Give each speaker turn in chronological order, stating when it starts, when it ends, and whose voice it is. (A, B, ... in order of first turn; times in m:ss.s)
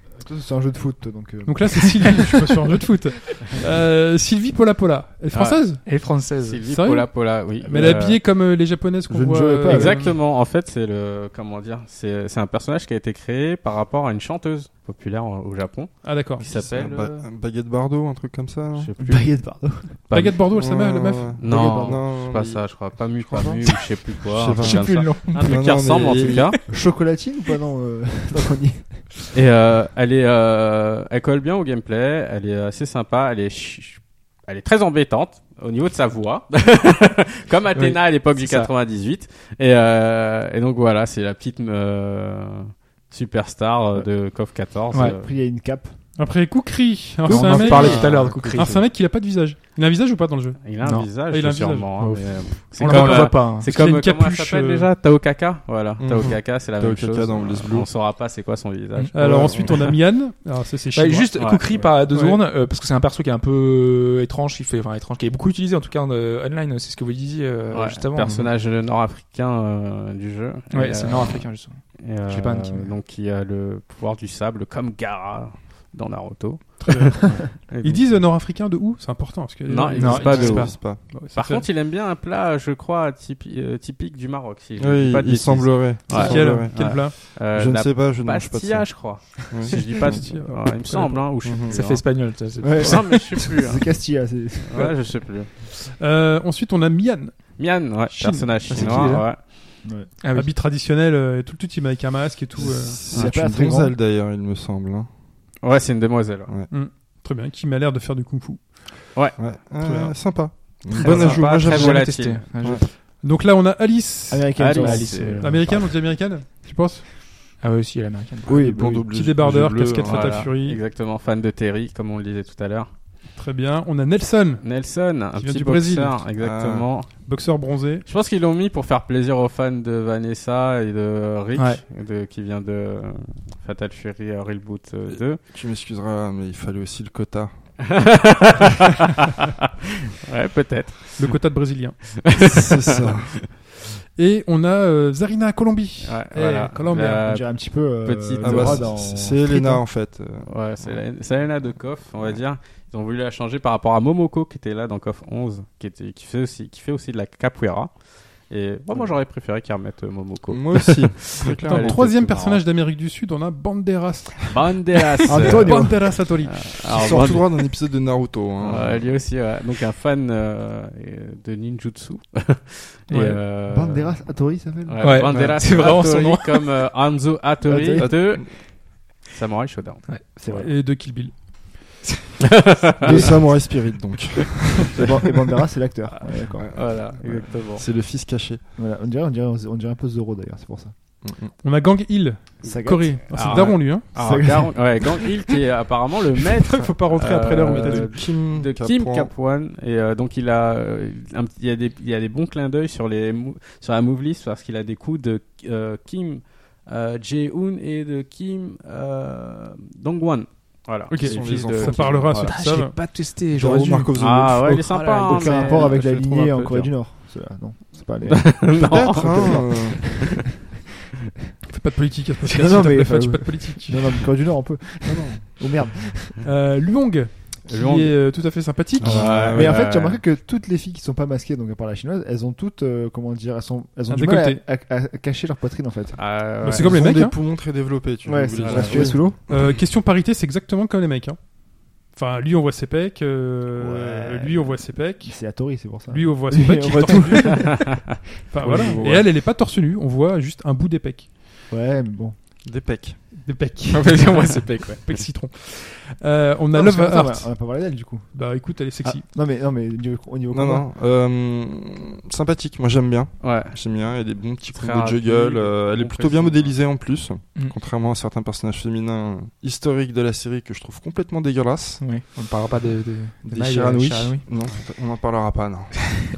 0:00.2-0:02.2 A
0:01.4-0:10.2 B
0:05.3-0:08.2 C
0:05.8-0:06.6 D
0:07.6-0:08.2 A
0:09.1-0:10.2 A
0:09.7-0:17.2 C
0:16.0-0:16.4 B
0:16.4-0:18.9 E
0:18.7-0:20.4 C
0:19.0-0:20.0 A
0:20.1-0:21.4 B
0:20.5-0:26.6 E
0:21.4-0:26.6 C
0:21.5-0:22.0 A
0:24.6-0:25.8 D
0:26.7-0:29.1 A
0:29.3-0:45.3 C
0:37.7-0:38.7 D
0:44.9-0:46.0 A
0:46.2-0:50.6 B
0:47.2-0:48.8 D
0:47.3-0:48.4 C
0:50.6-0:59.8 C
0:50.8-0:51.1 D
0:51.1-0:54.9 B
0:52.8-0:53.7 D
0:56.0-0:57.9 E
0:59.1-1:01.3 B
0:59.2-1:00.0 E
1:00.9-1:08.3 D
1:01.4-1:01.7 C
1:02.1-1:02.4 B
1:07.7-1:18.2 C
1:08.2-1:08.5 E
1:10.7-1:13.0 D
1:16.8-1:21.7 B
1:19.6-1:32.0 C
1:20.0-1:20.7 D
1:20.2-1:21.0 E
1:24.8-1:30.2 E
1:26.1-1:27.2 B
1:29.7-1:31.4 B
1:31.4-1:31.8 E
1:31.7-1:33.4 D
1:32.6-1:34.9 A
1:32.6-1:35.6 C
1:35.8-1:37.5 B
1:37.6-1:39.8 C
1:38.1-1:38.6 B
1:38.7-1:39.4 D
1:38.7-1:39.1 E
1:39.8-1:40.1 A
1:40.2-1:40.5 D
1:40.3-1:43.0 B
1:42.6-1:44.0 A
1:42.6-1:45.1 E
1:45.6-1:46.5 C
1:46.7-1:49.2 B
1:49.1-1:49.4 C
1:49.4-1:52.9 E
1:49.8-1:50.2 B
1:50.9-1:52.4 C
1:51.0-1:52.9 D
1:53.2-1:57.1 B
1:54.3-1:56.3 A
1:54.6-1:55.6 C
1:54.7-1:55.6 D
1:57.6-1:58.6 D
1:58.5-1:59.1 A
1:58.5-2:00.5 E
1:59.1-2:00.8 B
2:00.0-2:02.9 C
2:03.3-2:04.6 B
2:04.6-2:07.2 C
2:05.3-2:06.2 B
2:06.4-2:06.9 E
2:07.2-2:08.0 B
2:08.0-2:15.4 C
2:15.1-2:17.5 E
2:17.9-2:19.1 C
2:20.2-2:21.4 C
2:21.2-2:22.0 B
2:22.1-2:23.3 C
2:22.4-2:23.5 E
2:24.2-2:27.3 B
2:26.0-2:28.8 C
2:27.2-2:29.8 A
2:28.4-2:31.0 E
2:30.4-2:37.9 C
2:38.5-2:42.6 C
2:40.5-2:42.1 E
2:41.7-2:47.2 B
2:44.5-2:47.6 C
2:45.3-2:46.2 A
2:46.9-2:49.2 E
2:48.6-2:54.3 C
2:53.1-2:53.4 D
2:53.6-2:55.3 A
2:54.8-3:00.6 C
2:55.0-2:56.6 D
2:57.6-2:58.4 A
2:58.0-2:58.4 E
3:00.4-3:00.7 A
3:00.5-3:01.7 B
3:02.5-3:03.4 C
3:03.0-3:03.7 A
3:03.0-3:05.0 E
3:04.9-3:06.8 A
3:06.6-3:08.6 E
3:06.7-3:07.8 C
3:08.8-3:10.9 A
3:11.2-3:11.5 E
3:11.6-3:14.4 B
3:12.6-3:15.0 A
3:12.6-3:32.5 C
3:16.6-3:18.1 B
3:17.6-3:19.3 E
3:31.1-3:33.0 B
3:31.2-3:32.5 E
3:32.4-3:35.9 D
3:33.5-3:34.9 E
3:34.2-3:36.9 C
3:35.2-3:40.5 A
3:38.3-3:40.2 C
3:38.7-3:40.1 E
3:41.7-3:44.3 B
3:42.4-3:46.4 A
3:46.4-3:49.4 B
3:47.7-3:50.2 C
3:49.0-3:50.0 E
3:49.3-3:56.4 A
3:54.1-3:54.6 B
3:56.1-3:57.0 C
3:56.6-3:57.4 B
3:56.7-3:59.8 E
3:58.2-3:59.4 A
3:58.6-3:59.2 C
3:58.8-4:01.5 B
4:02.0-4:08.0 B
4:03.7-4:08.1 A
4:08.5-4:11.3 B
4:08.6-4:09.3 E
4:08.7-4:09.0 A
4:11.7-4:12.4 A
4:12.6-4:13.3 E
4:13.3-4:17.7 B
4:13.9-4:15.1 C
4:16.7-4:20.8 A
4:18.3-4:19.3 B
4:20.5-4:32.0 E
4:23.4-4:23.8 C
4:24.7-4:26.8 C
4:32.0-4:34.4 D
4:33.4-4:36.2 E